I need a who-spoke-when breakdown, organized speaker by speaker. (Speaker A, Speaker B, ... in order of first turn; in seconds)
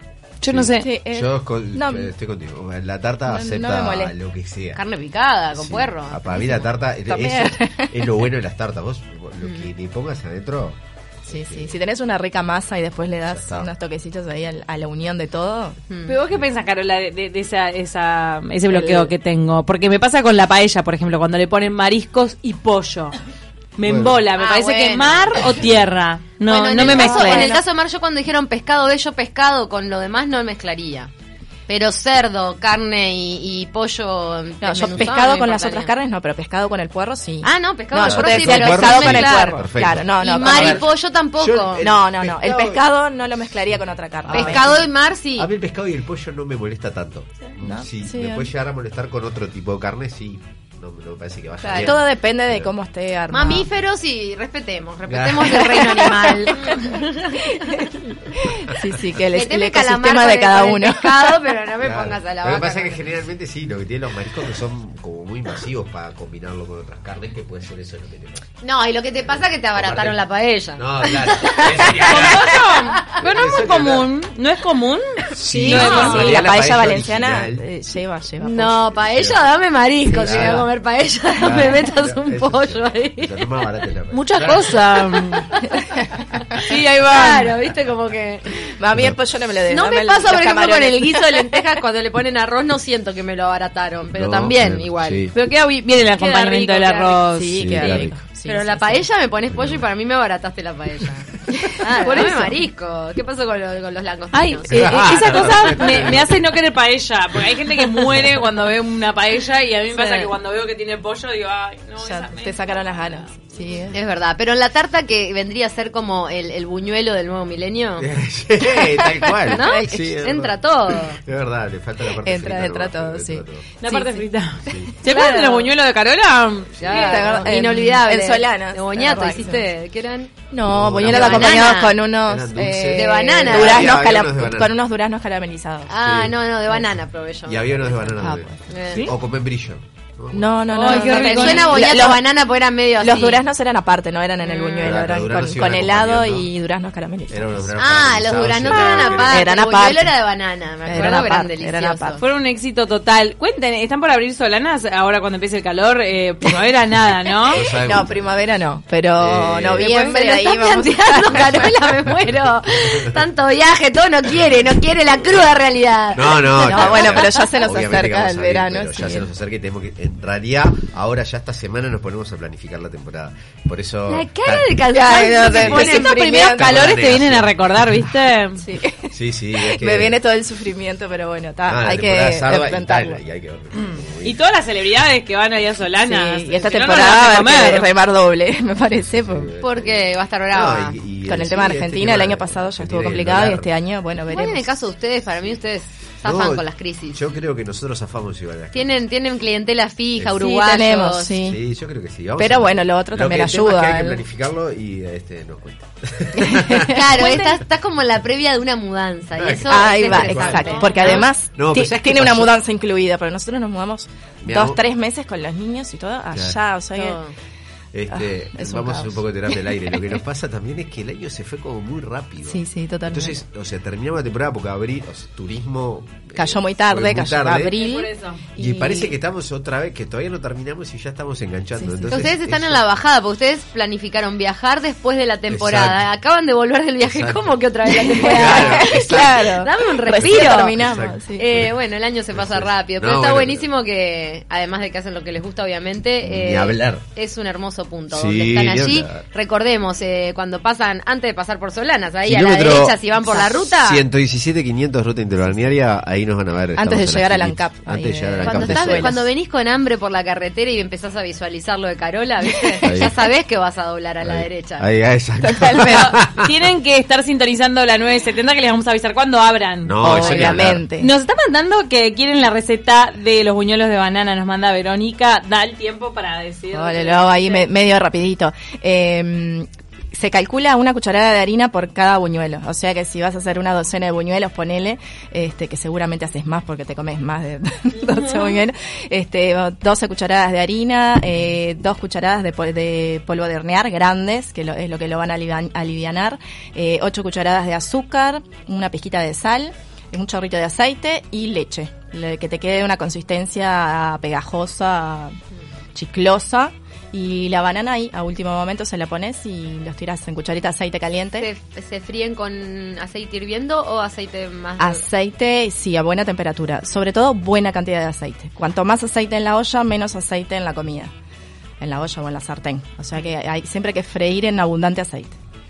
Speaker A: 0.4-0.9, 16.1-23.1, 23.8-27.6, 72.0-76.2, 84.1-85.5, 86.7-87.5, 95.3-97.6, 104.3-113.2, 123.8-127.5, 140.7-141.8, 152.2-157.6, 175.4-178.7, 183.7-187.9, 227.7-228.4, 265.8-277.7
Speaker B: 0.5-4.8, 5.5-11.8, 13.3-13.7, 23.8-24.2, 38.0-42.8, 44.3-52.7, 55.1-55.9, 61.8-68.4, 69.7-70.2, 70.8-72.5, 73.2-74.1, 75.3-77.6, 79.0-79.5, 80.1-80.7, 81.3-84.8, 94.1-95.3, 97.5-98.2, 99.5-99.8, 104.7-106.5, 118.0-123.7, 124.7-124.9, 130.7-134.8, 136.0-136.4, 137.4-140.6, 144.8-146.5, 147.3-149.6, 157.5-158.4, 159.2-160.0, 166.1-175.9, 176.5-177.9, 179.1-180.2, 181.7-184.4, 189.1-193.7, 196.2-199.1, 201.4-207.3, 209.4-212.5, 214.4-214.8, 217.9-227.8, 228.6-232.9, 235.5-236.1, 237.0-239.5, 240.2-241.8, 242.3-243.7, 246.2-247.0, 248.1-249.2, 252.3-253.0, 253.8-259.3, 262.8-263.2, 264.2-266.5, 269.9-270.8
Speaker C: 0.8-2.1, 3.3-4.1, 7.1-8.0, 11.3-15.8, 18.7-19.1, 26.8-27.6, 34.6-40.9, 41.8-44.8, 47.6-48.5, 51.8-53.7, 55.5-56.8, 57.5-61.4, 75.7-78.9, 80.1-80.7, 88.8-91.6, 97.3-99.0, 101.5-102.5, 112.0-114.0, 118.9-120.3, 122.2-124.2, 126.9-129.7, 130.5-135.9, 138.2-138.5, 140.3-142.3, 143.0-147.7, 148.8-150.1, 150.8-152.2, 157.7-161.8, 166.6-169.3, 174.9-176.9, 178.6-183.2, 186.0-189.5, 191.2-194.7, 200.3-201.6, 202.4-204.2, 206.4-207.4, 209.7-217.2, 218.1-219.8, 222.4-223.4, 226.3-229.2, 231.8-232.3, 237.9-241.4, 253.2-253.6, 256.8-259.3, 265.4-266.2, 270.0-271.1, 276.7-305.4, 305.9-311.5, 314.8-321.1, 321.8-325.4
Speaker D: 4.7-6.6, 9.4-9.7, 15.9-16.2, 24.4-25.6, 26.5-31.1, 31.7-35.9, 37.4-39.6, 40.2-41.9, 44.3-45.5, 51.6-52.0, 53.3-57.6, 59.3-63.1, 68.6-73.1, 75.5-76.5, 78.4-83.5, 86.5-88.7, 89.7-95.4, 96.0-106.0, 109.9-110.3, 113.9-118.1, 119.5-121.2, 125.0-125.7, 126.8-130.3, 131.0-132.0, 132.9-133.9, 135.9-139.1, 140.8-143.4, 144.4-144.9, 147.8-152.2, 159.8-167.6, 174.1-176.4, 189.6-191.0, 194.3-197.2, 198.7-201.4, 206.8-211.3, 216.9-217.3, 232.1-240.8, 241.3-254.1, 258.4-264.9, 311.4-315.0